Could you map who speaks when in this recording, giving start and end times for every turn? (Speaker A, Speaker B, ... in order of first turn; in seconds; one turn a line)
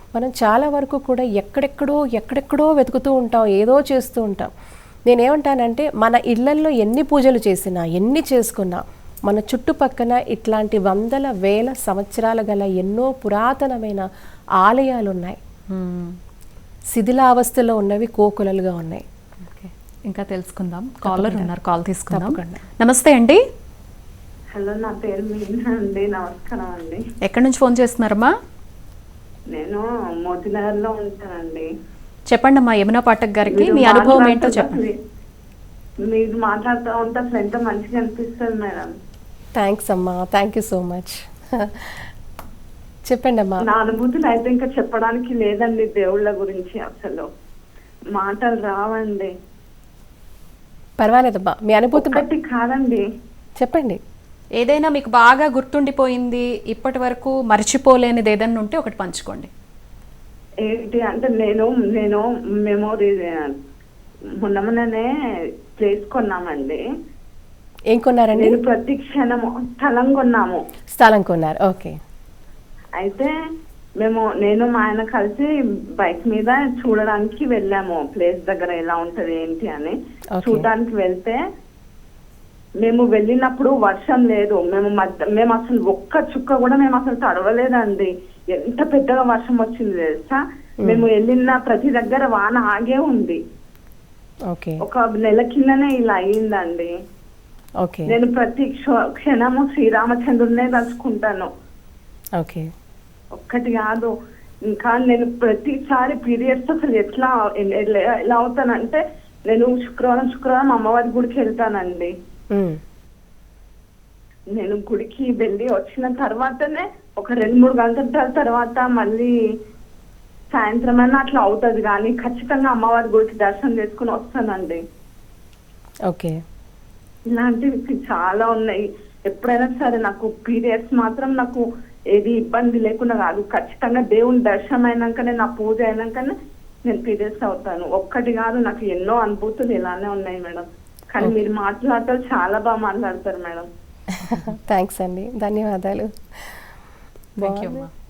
Speaker A: 0.1-4.5
Speaker A: 5.1-14.1
Speaker A: 14.6-15.4
Speaker B: 15.7-16.2
Speaker A: 16.9-19.0
Speaker B: 19.4-23.4
Speaker A: 21.0-21.5
Speaker A: 22.1-22.6
Speaker C: 24.5-27.0
Speaker B: 27.2-28.3
Speaker C: 29.5-31.7
Speaker B: 32.3-34.8
Speaker C: 33.5-35.0
Speaker C: 36.1-38.9
Speaker A: 39.6-42.1
Speaker A: 43.1-43.6
Speaker C: 43.6-47.3
Speaker C: 48.1-49.3
Speaker A: 51.0-52.2
Speaker C: 52.0-53.0
Speaker A: 53.6-54.0
Speaker B: 54.6-59.5
Speaker C: 60.6-63.5
Speaker C: 64.4-65.1
Speaker C: 65.8-66.8
Speaker A: 67.9-68.6
Speaker C: 68.4-70.6
Speaker A: 70.9-72.0
Speaker C: 73.0-73.3
Speaker C: 74.0-81.4
Speaker A: 80.3-80.7
Speaker C: 82.8-93.4
Speaker A: 94.5-94.8
Speaker C: 94.8-96.9
Speaker A: 97.8-98.1
Speaker C: 98.1-101.5
Speaker A: 102.4-102.7
Speaker C: 103.4-104.1
Speaker C: 104.7-112.1
Speaker A: 112.5-112.8
Speaker C: 114.5-119.3
Speaker C: 120.5-124.8
Speaker A: 126.1-126.4
Speaker C: 127.3-136.3
Speaker C: 136.8-143.7
Speaker A: 144.1-146.6
Speaker B: 147.4-147.9
Speaker A: 147.4-147.8